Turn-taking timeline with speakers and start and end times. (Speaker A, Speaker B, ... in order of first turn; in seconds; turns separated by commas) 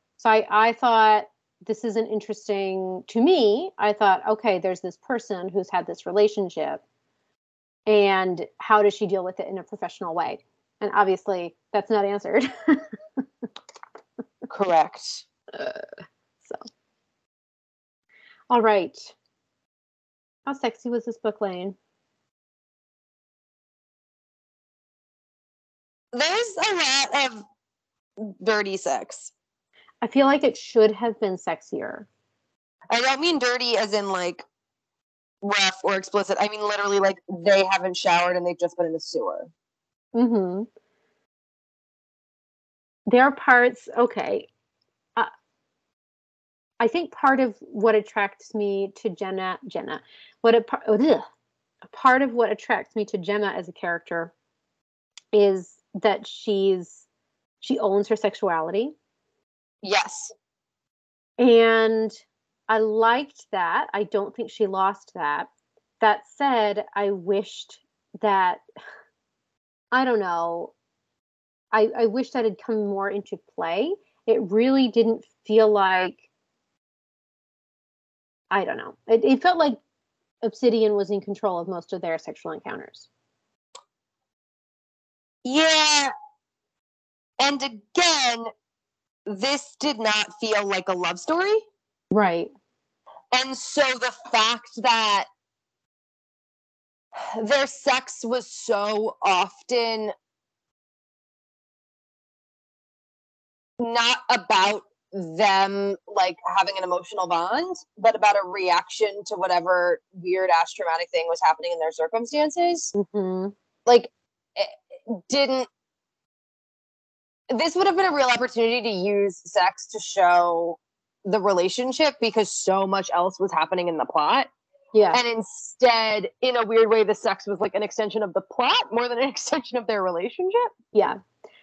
Speaker A: 0.2-6.8, Speaker A: 7.9-13.2, Speaker B: 14.5-15.3, Speaker A: 15.5-15.9, Speaker A: 18.5-19.1, Speaker A: 20.5-21.8, Speaker B: 26.1-27.4, Speaker B: 28.2-29.3, Speaker A: 30.0-32.1, Speaker B: 32.9-34.5, Speaker B: 35.4-39.5, Speaker A: 40.1-40.7, Speaker A: 43.1-44.5, Speaker A: 46.8-51.2, Speaker A: 51.9-54.3, Speaker A: 55.3-57.0, Speaker A: 57.6-59.0, Speaker B: 59.8-60.3, Speaker A: 61.4-62.1, Speaker A: 62.7-65.5, Speaker A: 66.0-68.6, Speaker A: 69.9-70.7, Speaker A: 71.7-76.2, Speaker A: 78.5-79.8, Speaker A: 80.4-83.1, Speaker B: 85.5-86.1, Speaker B: 87.4-88.5, Speaker B: 89.3-91.7, Speaker A: 92.1-92.5, Speaker B: 93.3-95.3, Speaker B: 97.2-100.1, Speaker B: 103.8-112.9, Speaker A: 113.0-113.5, Speaker B: 113.8-115.7, Speaker B: 117.5-124.5, Speaker A: 124.9-125.2, Speaker B: 125.1-130.7, Speaker A: 130.9-131.2